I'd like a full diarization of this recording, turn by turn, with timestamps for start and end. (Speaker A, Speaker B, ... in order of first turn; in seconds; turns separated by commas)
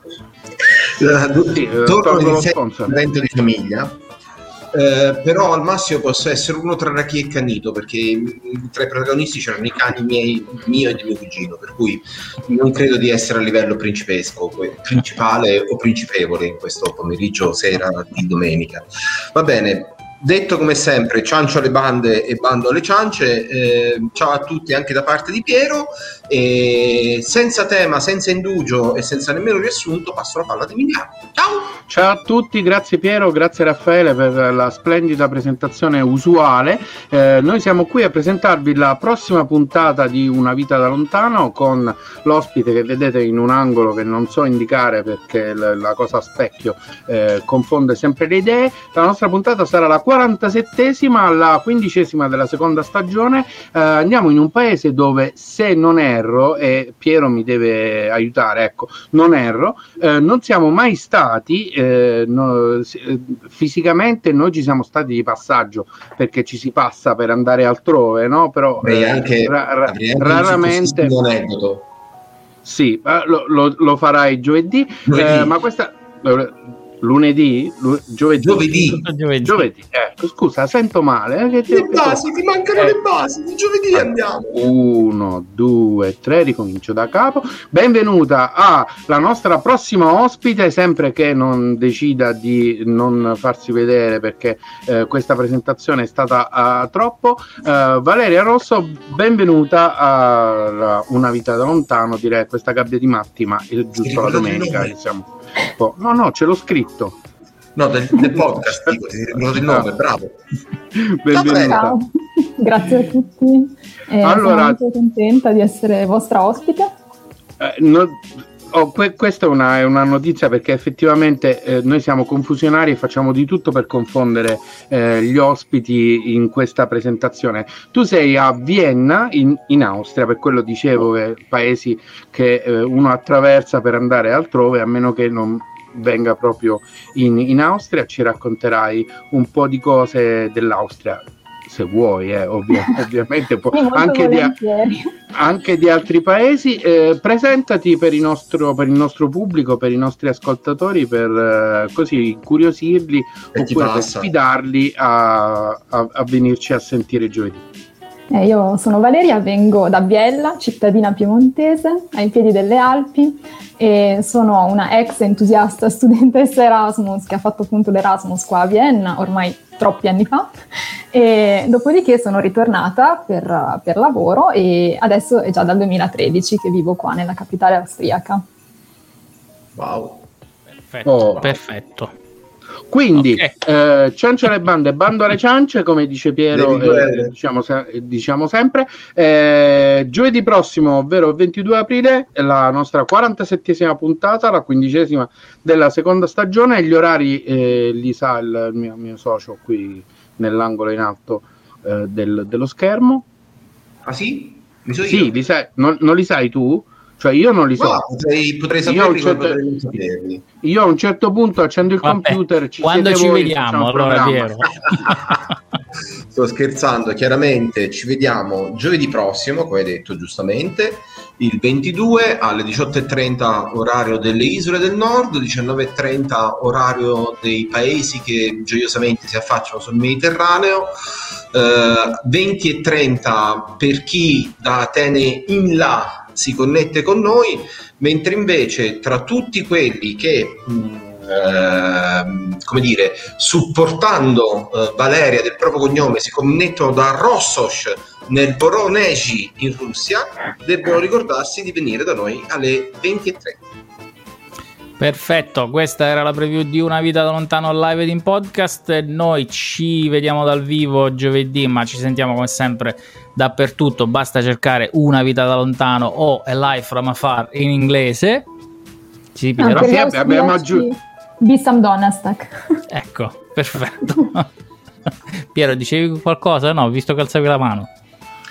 Speaker A: 0.6-4.0, Speaker B: 1.4-3.0, Speaker A: 4.7-31.8, Speaker B: 31.9-71.1, Speaker A: 68.8-71.8, Speaker B: 72.6-82.3, Speaker A: 75.1-75.5, Speaker A: 78.4-79.0, Speaker C: 79.0-79.7, Speaker A: 81.7-84.5, Speaker B: 83.9-107.2, Speaker A: 104.0-104.9, Speaker A: 107.8-110.4, Speaker B: 109.6-109.9, Speaker B: 110.9-112.0, Speaker A: 111.3-111.8, Speaker D: 111.4-116.9, Speaker B: 114.2-114.8, Speaker B: 117.6-144.5, Speaker D: 143.7-145.0, Speaker B: 145.3-157.6, Speaker A: 153.5-154.3, Speaker D: 158.3-170.5, Speaker D: 171.1-178.4, Speaker A: 179.8-180.2, Speaker C: 180.8-182.1, Speaker B: 181.0-181.5, Speaker A: 181.3-181.6, Speaker B: 182.9-203.3, Speaker C: 183.2-183.5, Speaker A: 186.5-187.3, Speaker A: 204.1-205.3, Speaker B: 205.0-208.0, Speaker A: 207.8-210.4, Speaker B: 208.8-209.6, Speaker B: 210.6-214.8, Speaker C: 212.0-215.4, Speaker A: 214.9-215.3, Speaker A: 216.3-230.9, Speaker A: 231.5-253.7, Speaker C: 255.0-268.4, Speaker C: 269.3-270.0, Speaker B: 269.6-270.9, Speaker D: 269.6-272.6, Speaker C: 272.9-274.5, Speaker C: 275.5-277.9